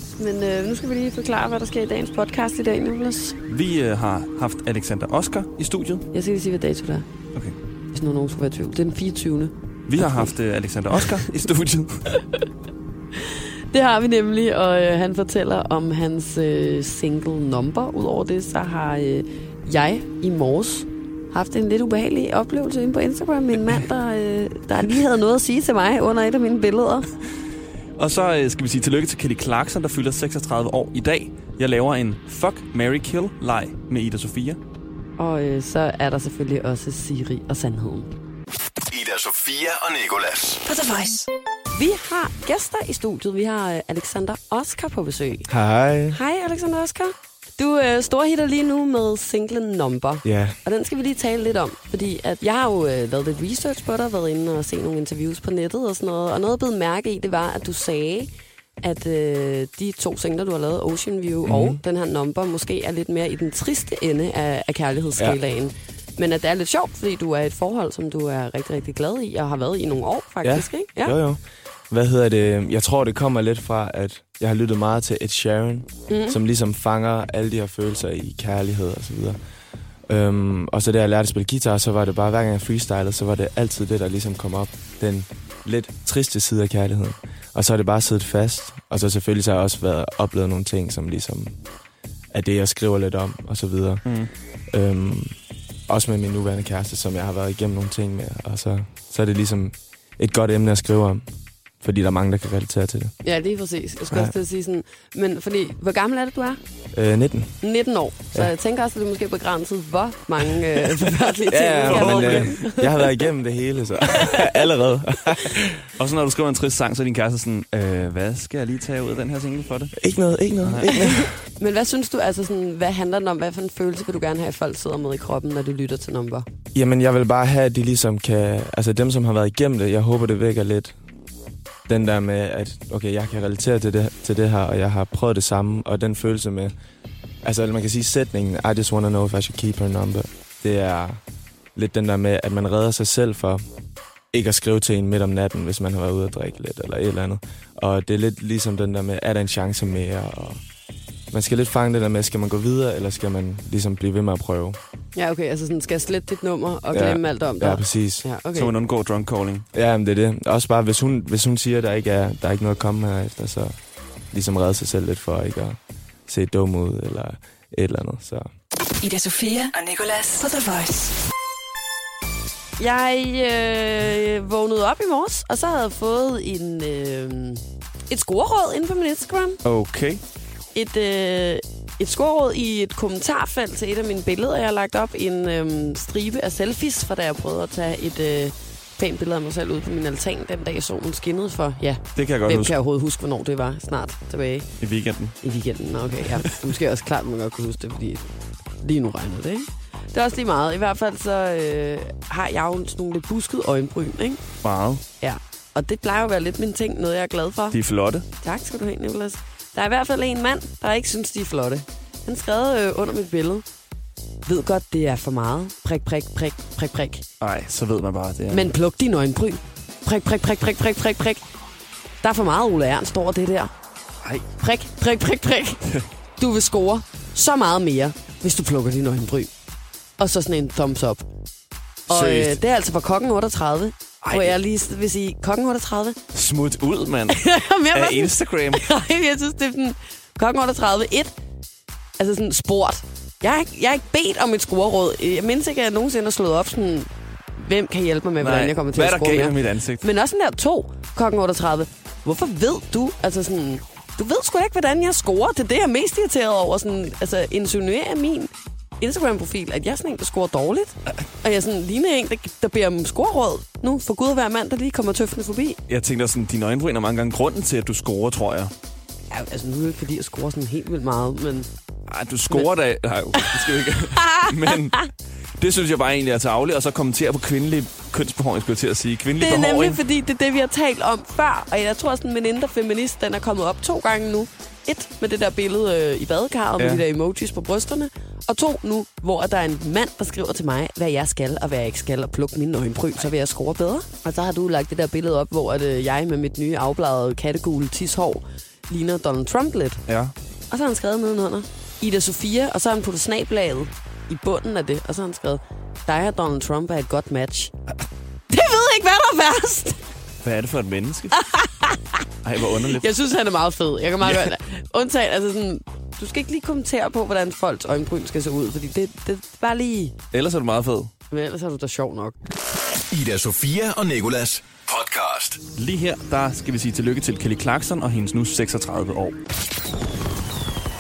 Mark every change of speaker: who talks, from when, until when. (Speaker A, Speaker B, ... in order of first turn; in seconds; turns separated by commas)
Speaker A: 0.2-3.4, Speaker B: 3.5-6.0, Speaker A: 6.1-7.1, Speaker A: 7.9-9.5, Speaker B: 9.9-12.2, Speaker A: 13.2-27.1, Speaker B: 28.0-34.6, Speaker A: 35.2-38.1, Speaker C: 38.9-40.6, Speaker D: 40.6-41.3, Speaker A: 41.7-45.5, Speaker E: 45.5-46.2, Speaker A: 46.1-58.3, Speaker E: 50.2-50.6, Speaker A: 58.8-71.2, Speaker E: 61.5-61.8, Speaker E: 70.4-79.4, Speaker A: 76.1-76.4, Speaker E: 80.1-91.6, Speaker E: 92.3-94.0, Speaker B: 94.0-94.3, Speaker E: 94.7-95.4, Speaker E: 95.9-101.2, Speaker E: 101.8-103.1, Speaker A: 103.2-106.6, Speaker E: 104.1-104.3, Speaker E: 106.9-107.6, Speaker A: 107.6-113.1, Speaker E: 111.5-115.9, Speaker B: 111.8-112.6, Speaker A: 114.1-114.7, Speaker B: 116.0-120.0, Speaker E: 120.0-121.3, Speaker B: 120.6-120.9, Speaker A: 120.9-126.5, Speaker E: 126.7-130.9, Speaker E: 131.9-136.7, Speaker E: 137.4-141.2, Speaker E: 141.8-143.6, Speaker E: 144.3-150.6, Speaker E: 151.3-154.8, Speaker A: 155.2-158.7, Speaker E: 156.9-158.2, Speaker B: 158.6-159.7, Speaker E: 159.7-163.8, Speaker E: 164.3-168.5, Speaker D: 169.0-171.1, Speaker A: 172.8-179.6, Speaker B: 179.7-180.2, Speaker A: 180.7-194.7, Speaker B: 192.2-192.8, Speaker B: 194.8-195.3, Speaker A: 195.4-204.4, Speaker B: 204.6-205.0, Speaker A: 205.2-207.8, Speaker B: 207.7-208.2, Speaker A: 208.4-213.7, Speaker A: 214.4-217.2, Speaker B: 217.4-218.7, Speaker A: 218.5-221.4, Speaker A: 222.2-223.7, Speaker A: 224.6-225.8, Speaker A: 226.4-229.5, Speaker A: 230.2-231.2, Speaker B: 232.1-232.6, Speaker A: 232.1-236.2, Speaker B: 234.2-234.6, Speaker B: 236.3-238.9, Speaker A: 237.3-241.3, Speaker A: 242.2-265.8, Speaker B: 248.4-250.0, Speaker B: 265.9-268.7, Speaker A: 269.3-271.7, Speaker B: 272.1-280.0, Speaker A: 273.5-275.0, Speaker A: 279.4-300.0, Speaker B: 286.8-287.0, Speaker B: 300.1-300.3, Speaker A: 300.7-307.7, Speaker A: 308.5-310.0, Speaker B: 310.4-311.5, Speaker A: 311.3-312.2, Speaker B: 312.4-313.1, Speaker A: 312.9-320.2, Speaker B: 320.3-321.1, Speaker A: 321.3-322.4, Speaker C: 323.1-325.6, Speaker B: 325.8-329.4